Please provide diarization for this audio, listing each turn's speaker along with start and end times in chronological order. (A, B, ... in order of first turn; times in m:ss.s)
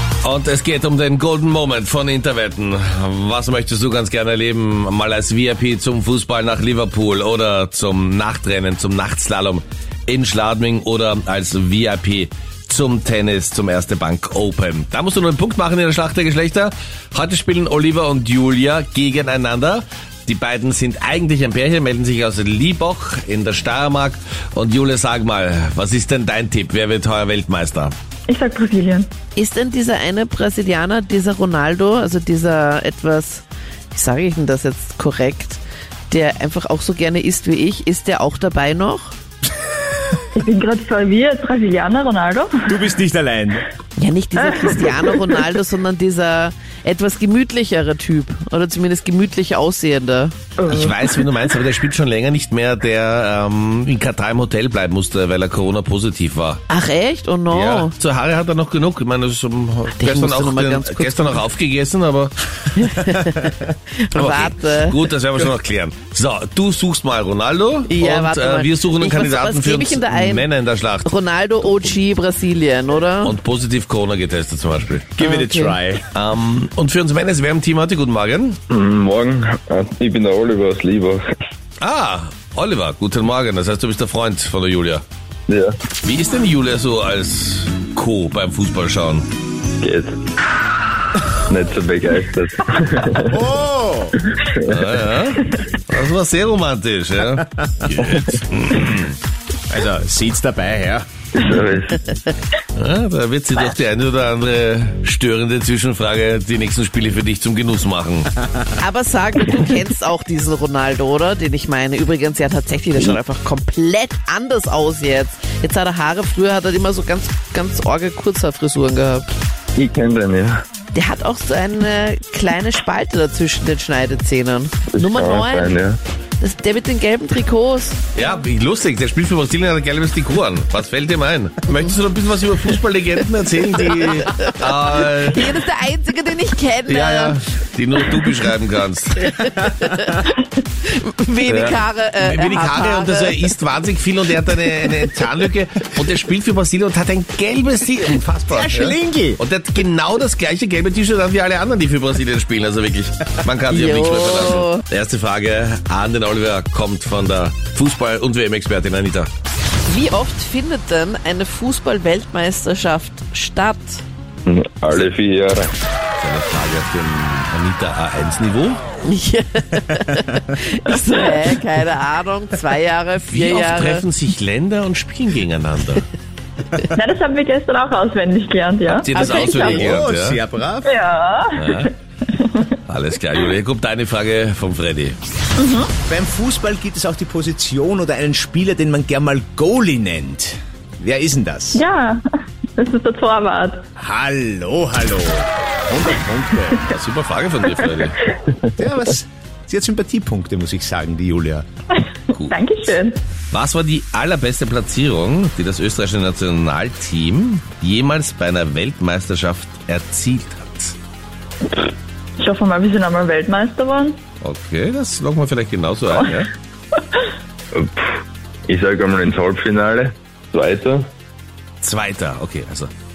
0:00.2-0:27.9 A
0:28.3-0:29.1 B
0:29.4-0:39.2 C
0:40.3-0:42.7 B
0:42.7-0:43.6 D
0:44.0-0:50.4 C
0:44.7-0:45.3 B
0:50.6-0:51.0 B
0:50.7-0:56.6 A
0:56.7-0:57.9 C
0:57.5-1:03.1 A
1:00.0-1:01.4 C
1:02.7-1:05.0 C
1:04.1-1:11.1 A
1:07.9-1:10.5 C
1:11.0-1:13.4 C
1:13.2-1:15.1 A
1:15.2-1:16.0 D
1:15.2-1:15.8 C
1:16.1-1:18.6 A
1:18.7-1:21.2 E
1:21.8-1:25.0 A
1:25.5-1:25.7 E
1:26.0-1:29.2 A
1:29.8-1:30.2 E
1:31.4-1:33.4 E
1:33.3-1:34.2 D
1:34.3-1:35.0 E
1:34.7-1:39.2 A
1:39.7-1:41.1 D
1:41.3-1:42.0 E
1:42.8-1:48.3 A
1:48.8-1:59.2 C
1:59.8-2:00.6 E
2:00.9-2:05.8 C
2:04.9-2:06.0 E
2:06.4-2:08.1 C
2:08.1-2:15.5 A
2:14.2-2:14.6 C
2:15.2-2:17.4 C
2:16.9-2:19.6 A
2:19.5-2:20.3 C
2:20.8-2:23.5 C
2:21.5-2:39.3 A
2:28.5-2:29.4 D
2:33.7-2:34.8 C
2:39.8-2:44.0 C
2:44.4-2:45.7 E
2:46.2-2:48.8 A
2:49.0-2:54.1 C
2:53.3-2:56.1 A
2:56.9-2:59.9 B
2:58.9-3:00.4 A
2:59.5-3:00.9 D
3:00.8-3:02.7 B
3:01.5-3:01.9 A
3:02.8-3:05.2 A
3:05.6-3:05.9 B
3:06.0-3:11.9 D
3:11.7-3:12.2 B
3:12.8-3:13.8 B
3:14.0-3:16.9 D
3:16.9-3:18.3 A
3:18.8-3:21.7 D
3:22.0-3:23.2 B
3:22.3-3:23.0 A
3:23.5-3:31.0 A
3:32.4-3:34.2 B
3:34.4-3:36.5 A
3:37.7-3:41.1 E
3:41.8-3:42.9 A